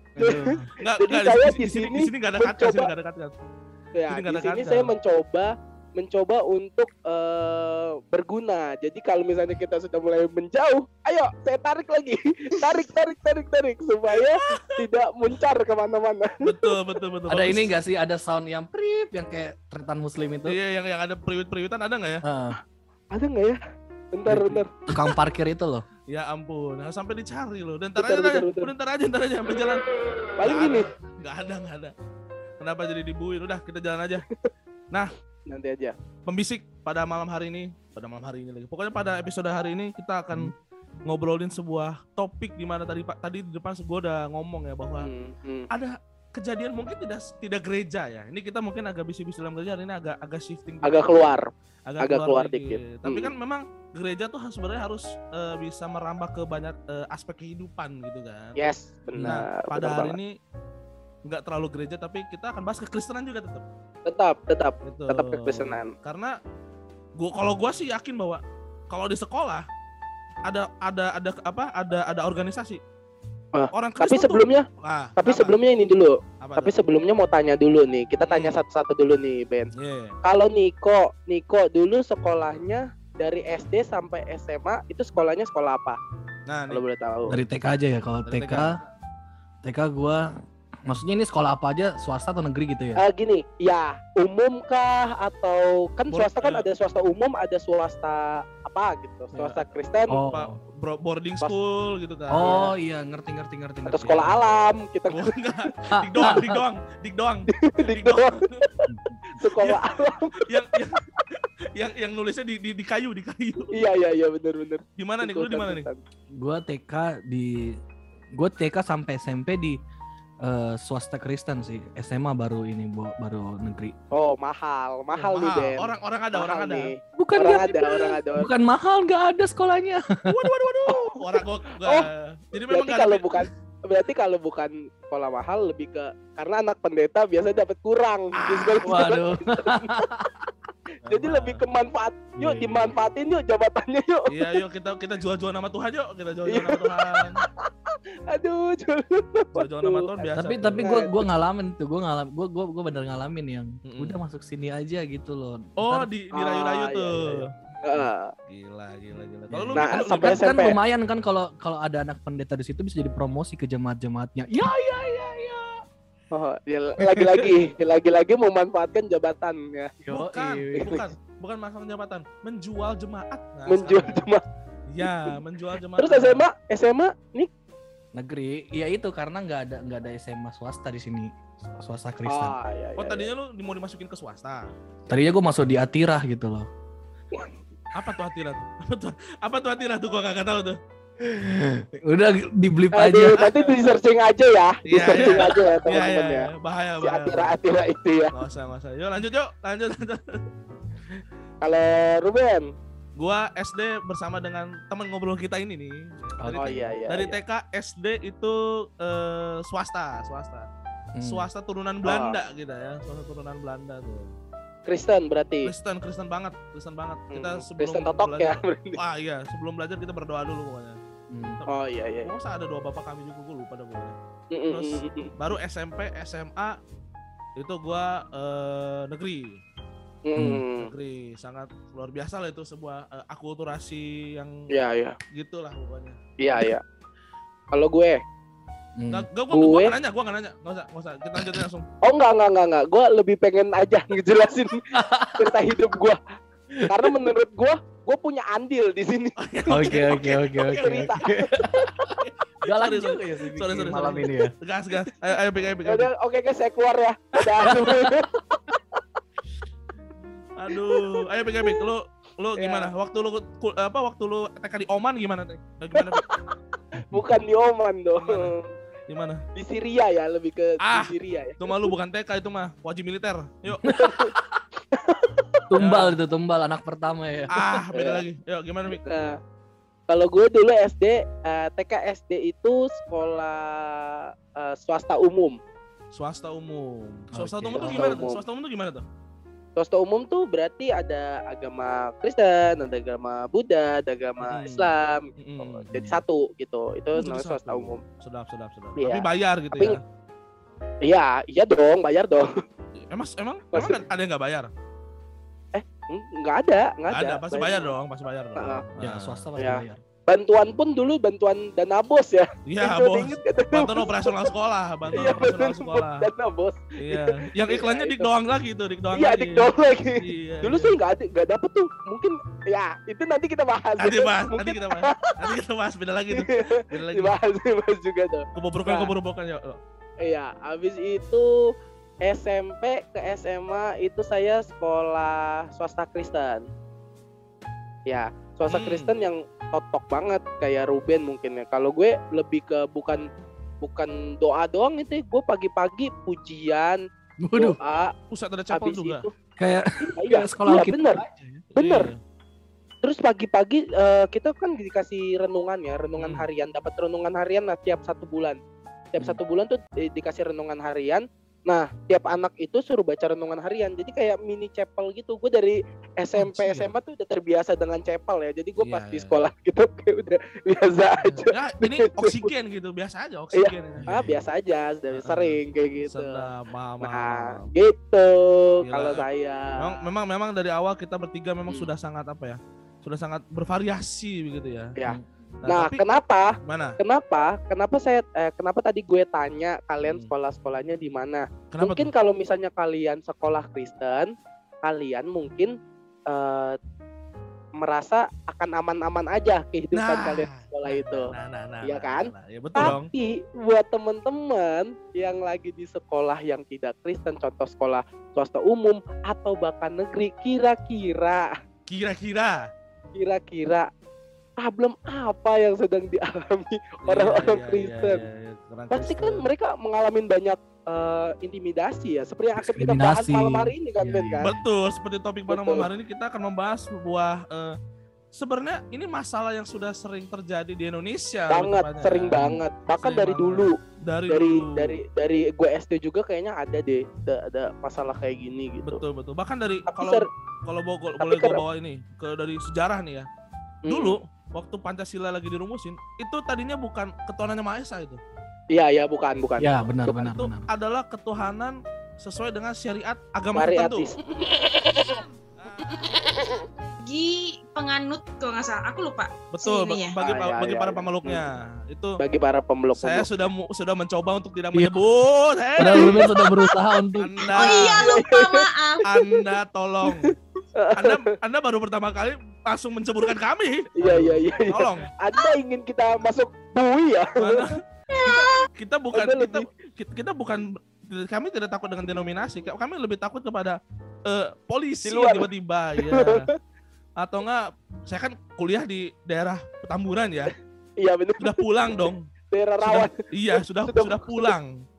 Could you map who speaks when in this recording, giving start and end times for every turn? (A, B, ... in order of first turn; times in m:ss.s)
0:00.2-0:00.7 A
0:00.2-0:02.9 B
0:00.2-0:03.3 C
0:03.9-0:16.8 B
0:04.1-0:04.9 C
0:14.2-0:14.8 C
0:16.4-0:17.7 C
0:17.3-0:20.6 A
0:20.5-0:22.2 C
0:22.2-0:22.6 A
0:23.1-0:23.6 B
0:24.1-0:25.1 B
0:24.3-0:25.8 A
0:26.1-0:29.8 C
0:28.0-0:28.7 B
0:30.4-0:30.9 B
0:30.4-0:31.9 C
0:32.6-0:34.2 C
0:35.5-0:36.0 B
0:36.3-0:40.5 C
0:41.1-0:45.1 C
0:45.0-0:45.7 B
0:45.7-0:51.4 C
0:50.8-0:51.5 B
0:51.9-0:58.6 C
0:52.0-0:53.3 B
0:58.6-1:00.2 B
0:59.2-1:00.4 C
1:01.3-1:03.6 C
1:04.1-1:05.9 B
1:04.8-1:06.4 C
1:07.2-1:09.7 C
1:10.4-1:12.8 C
1:13.5-1:19.7 B
1:13.7-1:15.6 C
1:16.4-1:16.8 C
1:18.2-1:18.6 C
1:19.8-1:20.2 C
1:20.2-1:26.0 B
1:26.5-1:26.8 C
1:26.7-1:27.4 B
1:27.3-1:28.8 A
1:28.2-1:28.8 C
1:29.6-1:30.3 A
1:30.9-1:33.0 A
1:33.0-1:40.2 B
1:36.1-1:36.7 C
1:39.3-1:42.7 C
1:40.1-1:40.6 A
1:42.3-1:44.5 A
1:42.3-1:42.7 B
1:43.9-1:45.4 B
1:45.1-1:48.7 C
1:45.9-1:46.6 A
1:47.5-1:50.4 B
1:49.4-1:51.0 C
1:51.7-1:53.8 C
1:53.7-1:56.0 B
1:55.0-1:55.9 C
1:56.4-1:57.8 A
1:58.4-1:59.8 A
2:00.4-2:04.0 A
2:04.1-2:08.5 B
2:05.1-2:06.9 C
2:07.2-2:10.1 A
2:10.3-2:13.5 C
2:10.9-2:11.3 B
2:11.8-2:12.1 B
2:12.7-2:20.1 B
2:18.4-2:19.0 C
2:18.8-2:20.3 A
2:21.0-2:21.6 C
2:21.1-2:24.5 B
2:22.4-2:22.9 C
2:24.3-2:27.4 C
2:26.5-2:31.2 B
2:29.5-2:31.0 C
2:30.4-2:36.1 A
2:33.8-2:34.2 C
2:35.8-2:37.5 C
2:36.3-2:38.3 B
2:38.5-2:40.5 C
2:39.5-2:45.8 A
2:39.8-2:40.8 B
2:46.3-2:50.1 B
2:50.1-2:51.0 A
2:50.1-2:54.3 C
2:53.7-2:54.4 B
2:54.9-2:56.5 C
2:55.0-2:55.4 B
2:56.0-2:57.5 B
2:58.2-3:02.6 A
3:02.3-3:03.3 B
3:03.0-3:04.7 C
3:05.1-3:06.7 A
3:07.9-3:10.8 C
3:11.2-3:13.4 A
3:12.9-3:16.5 B
3:13.4-3:13.7 C
3:14.9-3:17.6 C
3:17.0-3:18.3 B
3:18.3-3:20.4 C
3:21.6-3:22.7 B
3:23.2-3:30.7 C
3:26.4-3:27.0 A
3:26.6-3:27.4 B
3:31.2-3:31.5 A
3:31.2-3:34.3 C
3:32.0-3:32.4 B
3:34.9-3:35.7 B
3:35.6-3:41.0 C
3:37.3-3:39.0 B
3:41.3-3:41.6 A
3:41.6-3:44.2 C
3:41.7-3:42.3 B
3:44.5-3:45.4 B
3:44.7-3:46.8 C
3:47.6-3:49.6 C
3:50.2-3:50.9 B
3:50.4-3:50.6 A
3:50.8-3:54.6 C
3:54.7-3:55.2 B
3:55.3-3:56.2 C
3:56.4-3:56.8 B
3:57.7-3:58.2 B
3:59.0-3:59.3 A
3:59.1-4:01.9 C
3:59.5-4:00.0 B
4:02.0-4:06.2 B
4:04.9-4:05.5 A
4:06.8-4:07.1 A
4:06.8-4:09.9 B
4:09.4-4:16.1 C
4:09.7-4:14.5 A
4:10.8-4:11.6 B
4:15.9-4:19.0 B
4:17.6-4:18.3 A
4:20.6-4:26.3 C
4:20.8-4:21.8 B
4:22.6-4:22.9 B
4:26.0-4:28.7 B
4:28.2-4:28.5 C
4:29.1-4:29.4 C
4:29.6-4:31.9 B
4:30.8-4:33.9 C
4:33.8-4:34.6 A
4:33.9-4:34.3 B
4:34.9-4:35.4 B
4:35.7-4:37.5 A
4:35.8-4:36.2 C
4:37.5-4:39.1 C
4:37.9-4:38.2 B
4:38.9-4:39.4 B
4:40.1-4:45.6 B
4:46.1-4:49.0 C
4:47.3-4:48.2 A
4:47.8-4:48.4 B
4:49.8-4:58.0 B
4:54.4-4:55.9 C
4:55.9-4:56.2 A
4:57.2-5:00.0 C
4:59.0-5:00.0 B
5:01.0-5:02.6 B
5:03.0-5:04.7 C
5:03.7-5:04.0 B
5:05.7-5:07.9 B
5:07.1-5:09.4 C
5:08.6-5:08.8 B
5:09.0-5:10.0 A
5:09.6-5:14.4 B
5:12.7-5:16.3 C
5:15.1-5:18.3 B
5:17.0-5:21.0 C
5:19.1-5:25.6 B
5:24.0-5:27.4 C
5:26.3-5:29.1 B
5:28.6-5:29.8 C
5:30.2-5:36.7 B
5:38.1-5:43.3 B
5:38.7-5:39.2 C
5:43.8-5:47.0 B
5:47.4-5:47.8 A
5:47.6-5:48.1 B
5:48.3-5:49.3 C
5:48.7-5:49.3 B
5:49.6-5:51.6 A
5:50.1-5:51.2 B
5:51.7-5:52.2 C
5:51.8-5:52.1 B
5:53.0-5:58.6 B
5:56.2-5:56.4 C
5:59.1-6:12.5 B
6:06.4-6:06.9 A
6:08.8-6:09.4 C
6:11.3-6:14.3 C
6:13.5-6:16.5 B
6:14.0-6:14.4 A
6:15.1-6:17.7 C
6:17.0-6:20.0 B
6:18.8-6:19.3 C
6:19.8-6:25.0 C
6:25.0-6:36.8 B
6:25.6-6:26.0 C
6:26.6-6:27.0 C
6:30.0-6:30.3 C
6:31.7-6:32.1 C
6:37.8-6:41.3 B
6:39.9-6:43.1 C
6:41.8-6:51.5 B
6:51.9-6:52.7 C
6:53.2-6:53.9 B
6:54.6-6:58.2 B
6:57.0-6:59.5 C
6:58.9-7:04.5 B
7:02.6-7:04.6 A
7:04.4-7:07.8 C
7:05.5-7:05.9 B
7:08.3-7:12.4 C
7:11.5-7:13.8 B
7:12.4-7:12.6 A
7:13.0-7:15.0 C
7:14.3-7:19.0 B
7:18.8-7:23.3 C
7:19.9-7:20.3 B
7:21.2-7:21.6 B
7:23.8-7:24.2 B
7:23.9-7:28.2 C
7:28.7-7:30.3 B
7:29.6-7:30.7 A
7:30.2-7:34.1 C
7:33.5-7:35.2 B
7:34.8-7:40.2 D
7:35.6-7:36.2 C
7:36.0-7:36.6 B
7:39.5-7:42.2 C
7:40.2-7:41.4 B
7:42.2-7:43.3 B
7:43.0-7:46.3 C
7:45.8-7:48.0 A
7:46.4-7:46.7 D
7:47.2-7:48.0 C
7:47.5-7:49.1 D
7:48.0-7:49.2 B
7:49.0-7:50.3 C
7:50.8-7:51.2 B
7:51.0-7:55.1 C
7:54.0-7:57.7 B
7:57.4-8:06.5 C
7:58.1-7:58.6 D
7:59.1-7:59.7 B
8:05.1-8:06.5 B
8:07.2-8:10.5 C
8:11.0-8:14.5 B
8:11.4-8:12.3 C
8:12.8-8:14.8 C